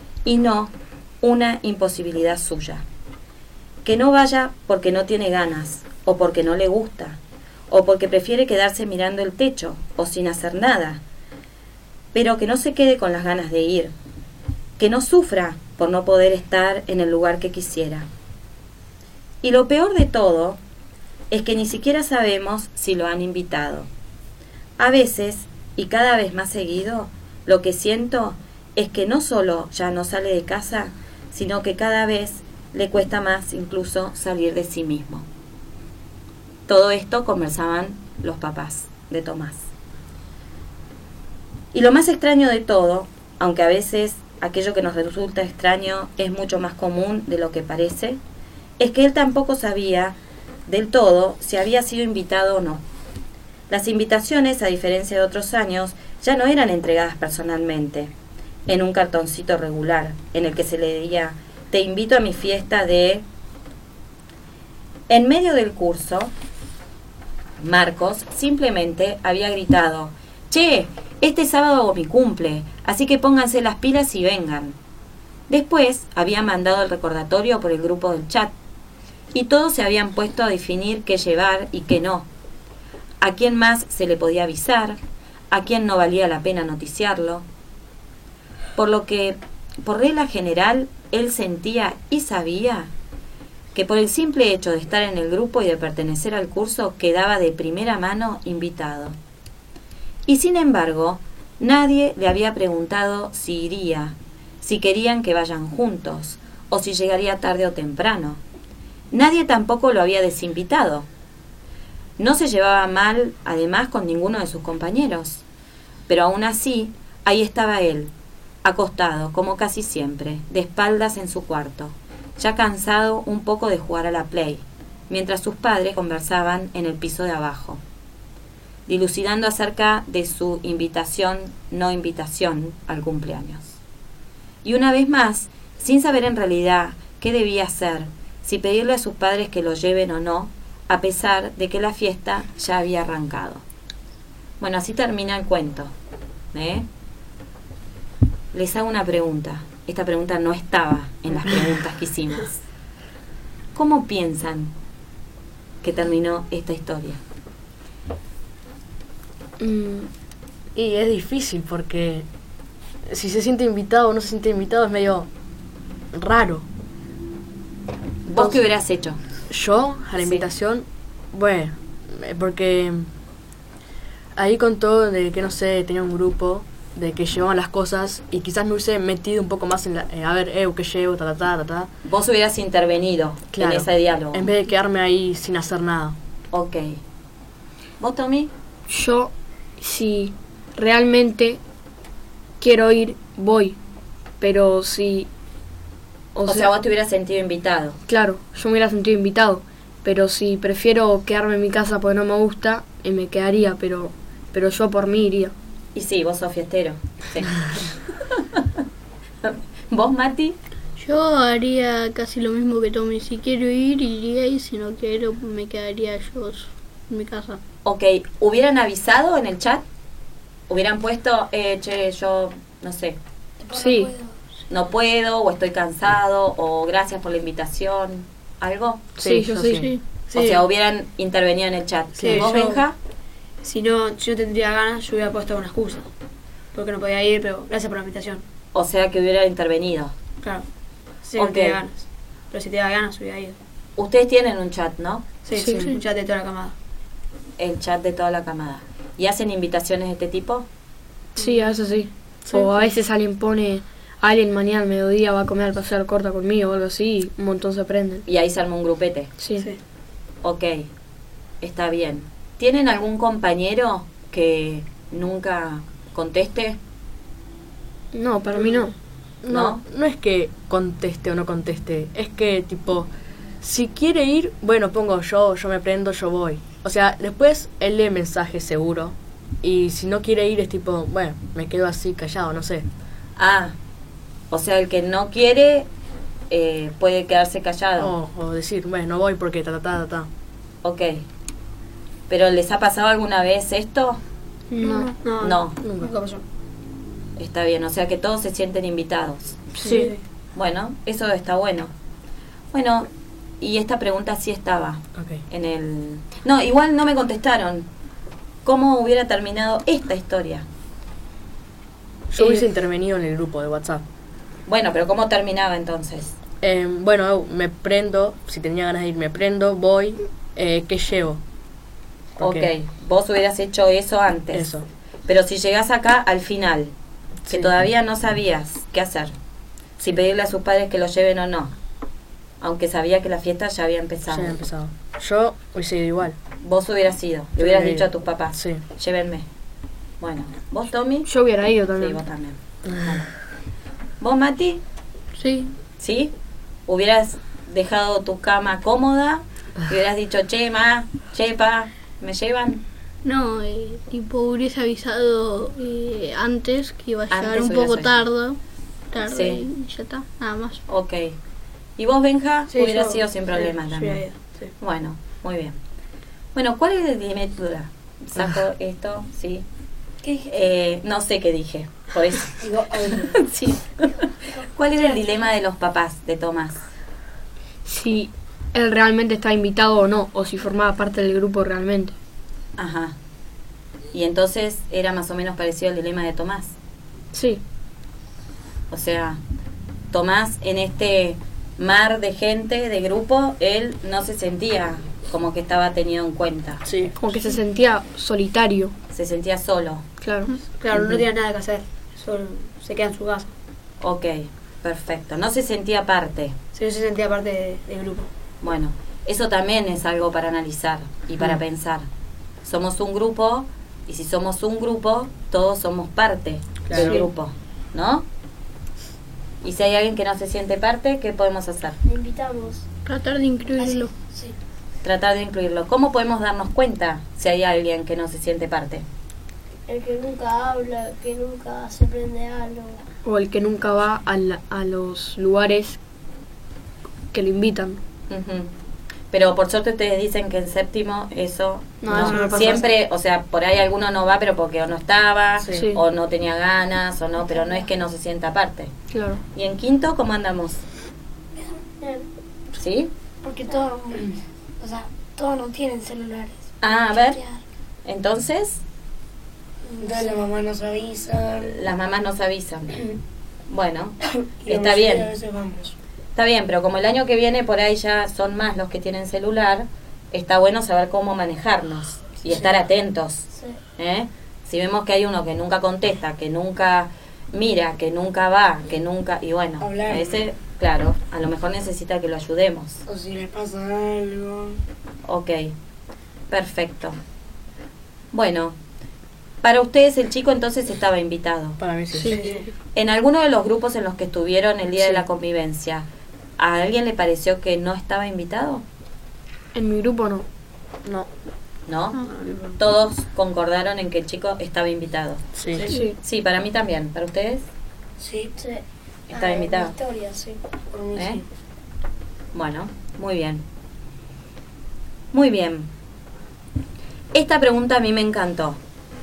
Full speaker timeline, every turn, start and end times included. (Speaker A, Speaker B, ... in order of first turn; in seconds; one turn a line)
Speaker A: 0.2-2.9
Speaker A: 3.8-11.0
Speaker A: 12.1-13.9
Speaker A: 14.8-18.1
Speaker A: 19.4-20.6
Speaker A: 21.3-23.9
Speaker A: 24.8-35.2
Speaker A: 36.7-39.6
Speaker A: 41.7-48.2
Speaker A: 48.8-52.8
Speaker A: 53.7-58.1
Speaker A: 58.7-63.2
Speaker A: 65.1-66.3
Speaker A: 67.6-74.8
Speaker A: 75.5-78.5
Speaker A: 79.3-82.3
Speaker A: 83.2-85.0
Speaker A: 85.5-87.4
Speaker A: 88.8-92.9
Speaker A: 93.7-99.2
Speaker A: 100.2-108.4
Speaker A: 109.1-111.1
Speaker A: 112.2-115.4
Speaker A: 116.1-127.8
Speaker A: 128.9-133.8
Speaker A: 134.6-143.6
Speaker A: 144.6-145.9
Speaker A: 146.5-146.9
Speaker A: 148.5-152.6
Speaker A: 153.7-154.7
Speaker A: 155.8-157.2
Speaker B: 159.6-160.1
Speaker C: 160.7-162.2
Speaker C: 163.1-165.3
Speaker C: 166.1-166.7
Speaker A: 168.2-169.2
Speaker C: 169.5-173.1
Speaker A: 170.2-170.4
Speaker C: 174.3-181.9
Speaker A: 182.1-184.5
Speaker C: 183.5-186.2
Speaker A: 186.5-187.0
Speaker A: 188.0-188.5
Speaker B: 188.9-191.6
Speaker B: 192.6-193.8
Speaker B: 194.4-195.3
Speaker B: 196.3-196.7
Speaker A: 196.4-198.0
Speaker B: 198.1-205.5
Speaker A: 205.9-208.8
Speaker A: 209.4-210.6
Speaker D: 211.0-217.6
Speaker A: 217.8-219.8
Speaker A: 220.7-223.2
Speaker E: 223.6-224.3
Speaker B: 223.7-224.1
Speaker A: 224.7-229.1
Speaker C: 229.2-229.9
Speaker B: 229.2-229.9
Speaker D: 229.7-230.0
Speaker F: 230.3-230.6
Speaker A: 230.3-233.0
Speaker C: 232.2-232.5
Speaker F: 232.2-232.8
Speaker F: 233.6-236.1
Speaker F: 236.7-238.4
Speaker A: 238.7-240.1
Speaker F: 240.4-240.7
Speaker F: 241.2-243.6
Speaker A: 241.3-241.8
Speaker A: 244.0-245.3
Speaker F: 245.4-246.7
Speaker B: 245.5-245.9
Speaker A: 247.6-250.7
Speaker B: 251.3-258.2
Speaker A: 258.2-259.3
Speaker B: 259.4-259.7
Speaker A: 260.4-260.9
Speaker A: 261.6-266.8
Speaker B: 268.1-268.9
Speaker C: 269.4-273.1
Speaker A: 269.5-269.8
Speaker C: 273.6-282.9
Speaker A: 283.4-283.8
Speaker A: 284.5-285.9
Speaker A: 286.5-288.1
Speaker C: 288.0-290.3
Speaker A: 290.8-291.2
Speaker A: 292.3-294.2
Speaker B: 294.7-295.1
Speaker F: 294.8-296.4
Speaker A: 295.4-295.8
Speaker C: 295.8-296.1
Speaker A: 297.4-299.6
Speaker B: 299.8-300.1
Speaker F: 299.8-300.2
Speaker A: 300.5-301.9
Speaker A: 302.7-303.1
Speaker A: 303.6-307.9
Speaker C: 305.1-305.4
Speaker A: 308.6-310.6
Speaker C: 312.3-314.0
Speaker B: 312.4-312.6
Speaker A: 314.7-316.4
Speaker C: 316.6-321.4
Speaker C: 322.4-322.7
Speaker A: 322.4-324.7
Speaker C: 324.5-324.9
Speaker A: 325.3-326.9
Speaker A: 327.5-329.3
Speaker A: 330.0-331.7
Speaker A: 332.6-334.6
Speaker C: 334.3-336.4
Speaker A: 336.6-339.4
Speaker C: 337.6-338.8
Speaker A: 340.2-341.3
Speaker B: 341.2-342.2
Speaker A: 341.8-343.3
Speaker A: 344.2-344.8
Speaker D: 345.4-345.7
Speaker A: 346.0-346.3
Speaker A: 346.9-352.8
Speaker D: 353.2-358.6
Speaker A: 357.3-358.2
Speaker D: 359.1-360.8
Speaker A: 359.2-359.6
Speaker A: 360.9-361.4
Speaker A: 362.0-364.2
Speaker F: 362.7-364.7
Speaker A: 364.8-365.8
Speaker A: 366.5-369.6
Speaker A: 370.4-372.6
Speaker G: 372.6-373.4
Speaker A: 373.2-376.8
Speaker E: 375.0-375.3
Speaker B: 377.8-382.1
Speaker A: 382.8-383.1
Speaker A: 384.1-386.7
Speaker B: 387.3-387.6
Speaker A: 388.9-389.4
Speaker A: 390.1-396.8
Speaker C: 396.8-397.1
Speaker B: 397.2-398.9
Speaker A: 399.1-400.0
Speaker B: 400.2-400.5
Speaker F: 400.5-403.5
Speaker C: 400.9-401.2
Speaker A: 404.0-406.6
Speaker F: 406.7-408.3
Speaker A: 408.6-412.1
Speaker A: 412.6-418.2
Speaker C: 416.9-417.2
Speaker F: 416.9-417.2
Speaker A: 419.6-422.0
Speaker H: 422.0-422.9
Speaker D: 423.1-424.1
Speaker E: 423.8-424.5
Speaker A: 425.0-429.0
Speaker H: 429.9-433.0
Speaker B: 433.2-436.0
Speaker B: 437.3-438.0
Speaker A: 438.3-438.7
Speaker A: 439.3-448.9
Speaker F: 442.0-442.9
Speaker B: 442.1-442.5
Speaker B: 445.7-446.0
Speaker B: 449.1-449.4
Speaker A: 449.5-450.8
Speaker E: 451.6-452.1
Speaker A: 452.8-453.1
Speaker E: 453.4-457.6
Speaker A: 456.8-457.4
Speaker A: 458.0-458.8
Speaker E: 459.9-460.4
Speaker G: 460.0-461.8
Speaker A: 461.7-463.0
Speaker A: 463.7-465.3
Speaker G: 464.6-465.9
Speaker A: 466.3-483.0
Speaker G: 479.8-480.4
Speaker G: 483.1-484.8
Speaker A: 485.2-485.7
Speaker A: 486.5-487.2
Speaker A: 488.3-488.8
Speaker A: 489.6-491.8
Speaker C: 491.8-492.4
Speaker F: 492.2-492.7
Speaker A: 492.9-496.1
Speaker A: 496.6-498.8
Speaker B: 499.7-500.4
Speaker A: 501.9-502.2
Speaker F: 502.1-502.8
Speaker A: 502.8-505.4
Speaker C: 505.6-505.9
Speaker B: 505.9-506.1
Speaker A: 506.2-507.7
Speaker G: 508.2-508.5
Speaker H: 508.6-510.6
Speaker A: 509.3-509.9
Speaker G: 510.9-511.4
Speaker A: 511.1-511.4
Speaker A: 512.5-513.6
Speaker A: 515.3-515.9
Speaker A: 517.3-518.8